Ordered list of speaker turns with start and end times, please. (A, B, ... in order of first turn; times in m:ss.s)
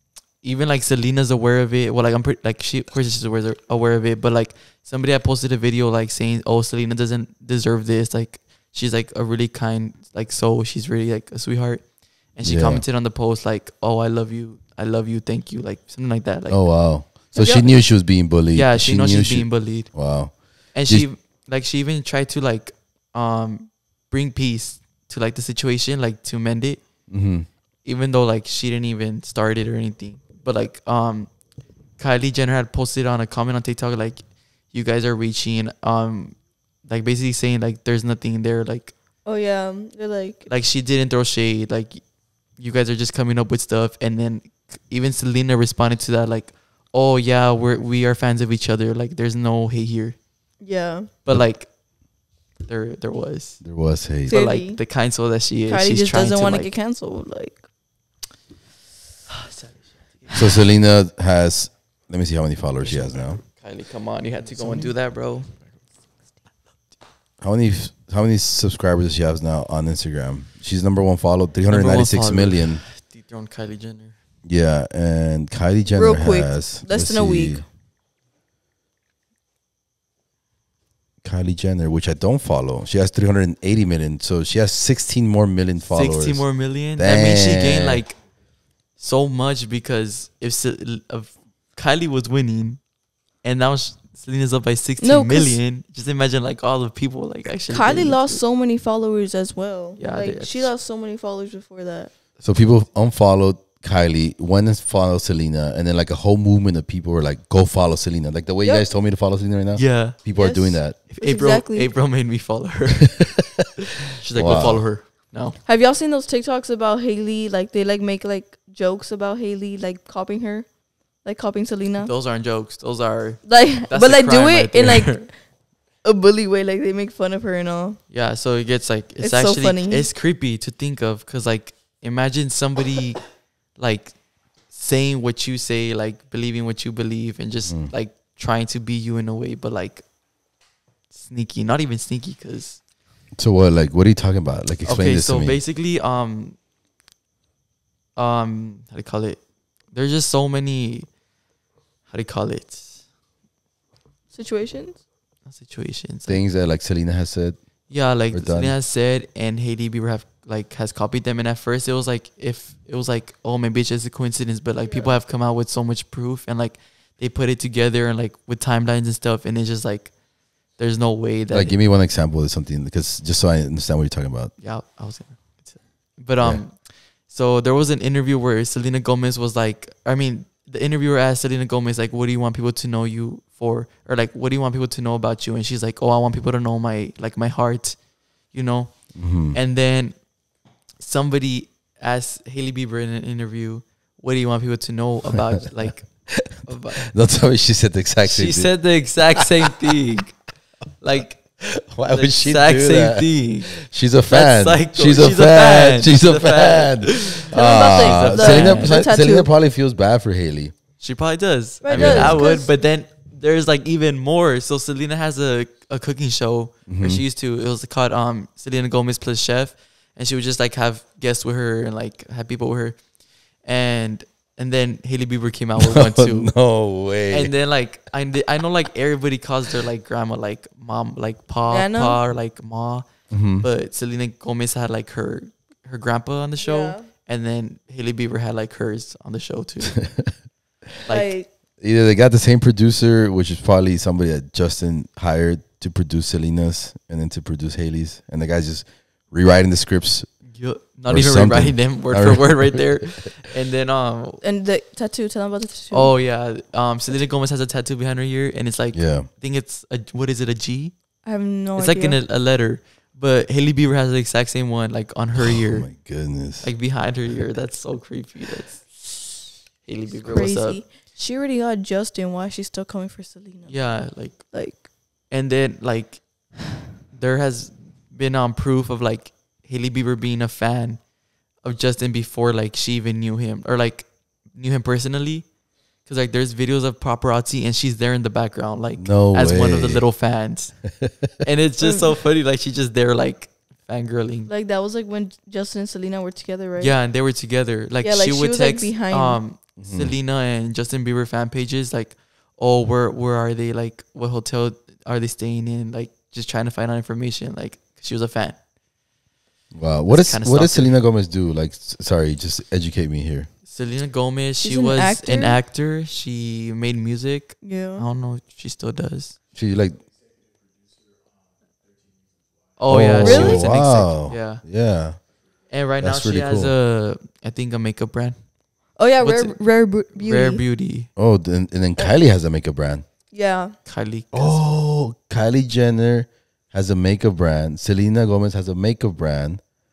0:00.4-0:17.6 A
0:12.4-0:12.8 B
0:16.5-0:21.1 B
0:18.5-0:20.0 A
0:20.7-0:26.8 A
0:27.1-0:27.5 B
0:27.8-0:31.3 A
0:32.0-0:38.9 A
0:39.2-0:40.5 C
0:40.5-0:42.0 A
0:42.6-0:50.2 A
0:50.6-0:51.1 C
0:51.2-0:51.7 A
0:52.6-0:53.6 A
0:53.6-0:54.4 B
0:54.2-0:56.7 A
0:54.3-0:54.8 C
0:55.7-0:57.6 C
1:00.3-1:03.4 B
1:02.8-1:05.6 A
1:04.6-1:04.9 C
1:07.4-1:12.8 B
1:11.7-1:14.1 A
1:14.4-1:17.6 B
1:16.0-1:17.6 C
1:21.2-1:28.0 B
1:25.8-1:28.2 A
1:29.0-1:32.8 A
1:33.4-1:38.4 A
1:35.0-1:35.6 C
1:37.7-1:42.1 C
1:40.0-1:40.7 A
1:42.4-1:51.0 B
1:49.8-1:50.2 A
1:50.4-1:51.9 C
1:51.1-1:55.6 A
1:53.2-1:53.7 B
1:54.3-1:54.8 B
1:55.6-2:00.7 C
2:01.2-2:02.1 C
2:02.0-2:05.3 A
2:03.4-2:05.3 C
2:06.0-2:08.0 C
2:08.1-2:13.2 A
2:09.2-2:10.1 C
2:13.8-2:14.1 A
2:14.7-2:20.0 A
2:21.1-2:22.8 A
2:23.3-2:25.6 B
2:24.8-2:26.6 A
2:28.2-2:29.4 A
2:29.9-2:31.1 A
2:32.1-2:33.0 A
2:34.3-2:35.0 C
2:35.4-2:36.4 A
2:36.3-2:37.6 B
2:37.9-2:50.2 A
2:38.3-2:38.7 B
2:50.7-2:51.7 A
2:51.5-2:54.5 B
2:54.6-3:08.0 A
3:08.5-3:10.2 A
3:09.2-3:09.6 B
3:11.0-3:17.1 A
3:16.3-3:18.7 B
3:18.2-3:20.4 A
3:19.4-3:19.9 B
3:21.0-3:21.4 A
3:21.6-3:30.7 B
3:22.1-3:28.9 A
3:27.5-3:29.5 C
3:31.0-3:43.0 A
3:31.8-3:32.7 C
3:31.9-3:32.4 B
3:36.9-3:37.2 B
3:43.6-3:46.5 A
3:45.8-3:47.5 B
3:47.3-3:53.1 A
3:51.7-3:52.2 C
3:53.3-3:53.7 B
3:53.6-4:00.1 A
3:56.6-3:57.1 C
4:00.0-4:00.3 B
4:01.1-4:01.4 A
4:01.1-4:01.5 C
4:01.8-4:10.3 B
4:10.5-4:14.4 A
4:11.1-4:12.8 B
4:14.4-4:16.1 C
4:15.9-4:21.0 A
4:18.9-4:19.3 B
4:21.2-4:22.2 C
4:21.7-4:25.9 A
4:25.4-4:26.7 B
4:26.6-4:29.2 A
4:29.8-4:30.8 A
4:30.2-4:34.8 C
4:33.7-4:34.5 A
4:35.3-4:36.5 A
4:37.1-4:41.0 A
4:41.6-4:45.5 A
4:46.1-4:54.5 A
4:49.0-4:50.0 B
4:50.9-4:51.3 B
4:51.8-4:52.1 C
4:54.5-4:56.9 C
4:56.8-5:08.6 A
4:58.0-4:59.4 C
4:59.8-5:00.1 B
5:09.7-5:13.5 B
5:10.1-5:10.9 A
5:13.7-5:19.4 A
5:14.6-5:15.6 C
5:17.6-5:18.1 C
5:19.5-5:20.0 B
5:22.8-5:24.6 A
5:22.9-5:25.2 B
5:23.2-5:23.7 C
5:25.7-5:28.4 A
5:26.0-5:26.7 B
5:29.0-5:30.6 C
5:29.2-5:29.6 A
5:30.2-5:31.1 A
5:31.2-5:33.0 B
5:33.3-5:33.7 C
5:33.8-5:34.6 A
5:34.3-5:39.6 B